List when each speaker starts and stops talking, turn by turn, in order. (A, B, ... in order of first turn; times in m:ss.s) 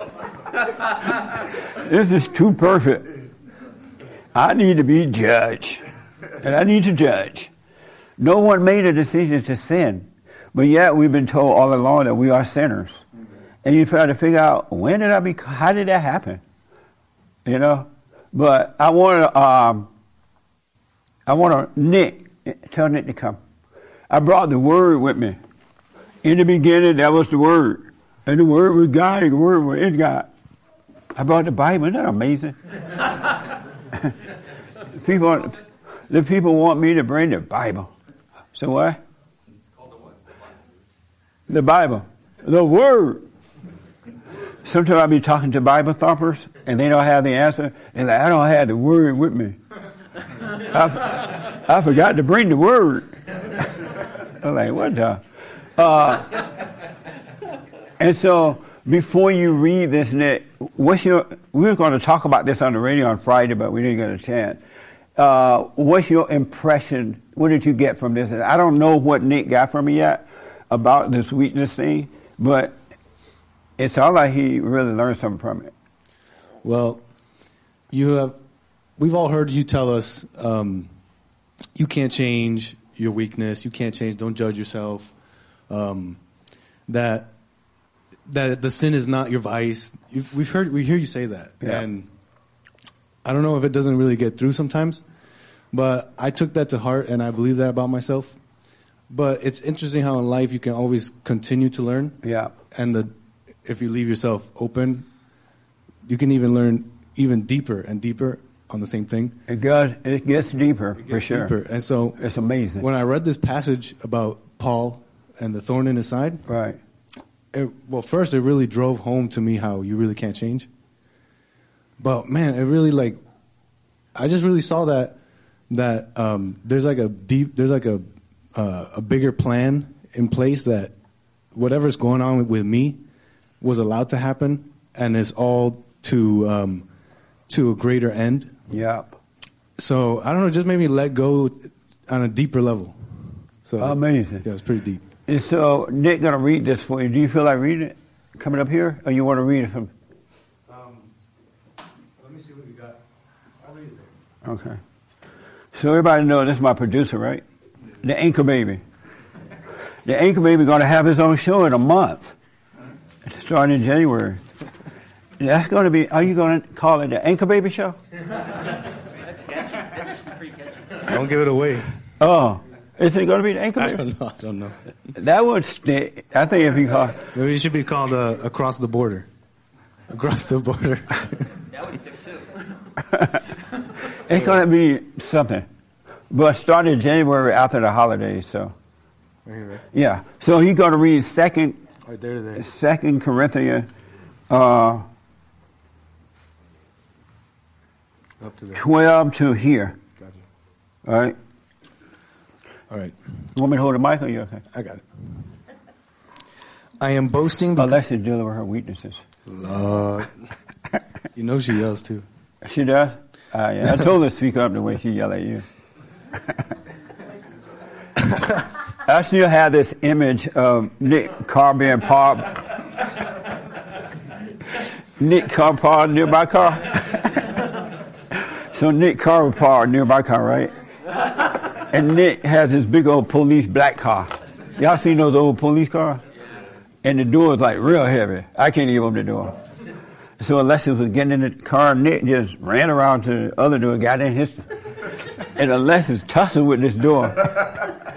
0:01.3-0:03.1 A
0:04.3-0:05.8 A
0:06.4-0:07.5 A
0:08.2-0:13.0 A
0:13.6-0:16.4 A
0:17.4-0:19.9 A
0:21.2-0:23.4 A
0:24.1-0:25.4 A
0:26.2-0:30.3 A
0:31.1-0:32.6 A
0:34.9-0:37.9 A
0:38.6-0:39.0 A
0:41.5-0:43.2 A
0:44.6-0:49.6 A
0:50.6-0:53.2 A
0:54.4-0:55.2 A
0:55.8-0:56.4 A
0:58.0-1:04.6 A
1:05.2-1:12.8 A
1:13.8-1:15.7 A
1:16.6-1:17.0 B
1:17.9-1:18.4 B
1:19.0-1:20.9 B
1:21.7-1:25.1 B
1:25.7-1:26.2 B
1:26.9-1:27.3 B
1:28.3-1:32.1 B
1:33.2-1:35.0 B
1:35.7-1:38.4 B
1:39.1-1:42.2 B
1:42.2-1:42.5 A
1:42.7-1:43.1 B
1:43.6-1:45.0 B
1:46.0-1:49.3 B
1:49.5-1:51.5 A
1:51.0-1:52.2 B
1:52.2-1:52.8 A
1:52.8-1:56.4 B
1:56.5-1:56.8 A
1:57.5-2:00.7 B
2:02.0-2:03.2 B
2:04.1-2:05.2 B
2:05.7-2:10.9 B
2:11.5-2:13.0 B
2:13.6-2:16.8 B
2:17.5-2:18.5 B
2:18.7-2:19.1 A
2:19.8-2:25.0 B
2:23.8-2:24.4 A
2:25.3-2:29.9 A
2:34.4-2:34.8 A
2:35.7-2:37.4 A
2:38.0-2:38.8 A
2:40.0-2:42.3 A
2:43.2-2:44.4 A
2:45.4-2:48.0 A
2:51.0-2:51.9 B
2:52.2-2:54.0 A
2:53.9-2:54.7 B
2:55.1-2:57.2 A
2:57.3-2:59.3 B
3:00.1-3:01.5 B
3:04.3-3:05.6 A
3:04.3-3:04.6 B
3:06.3-3:08.7 A
3:09.4-3:09.8 B
3:09.9-3:11.8 A
3:12.0-3:12.6 B
3:12.6-3:13.9 A
3:14.5-3:15.0 A
3:18.4-3:18.8 B
3:18.7-3:20.0 A
3:21.0-3:21.3 A
3:22.9-3:23.1 B
3:23.5-3:24.6 A
3:24.7-3:25.0 B
3:27.0-3:28.0 B
3:27.8-3:29.2 A
3:29.4-3:30.3 B
3:31.3-3:32.2 B
3:32.6-3:35.6 A
3:39.0-3:42.6 A
3:45.2-3:47.6 A
3:48.7-3:50.7 A
3:51.4-3:56.2 A
3:57.0-3:59.6 A
4:00.4-4:04.7 A
4:05.4-4:07.9 A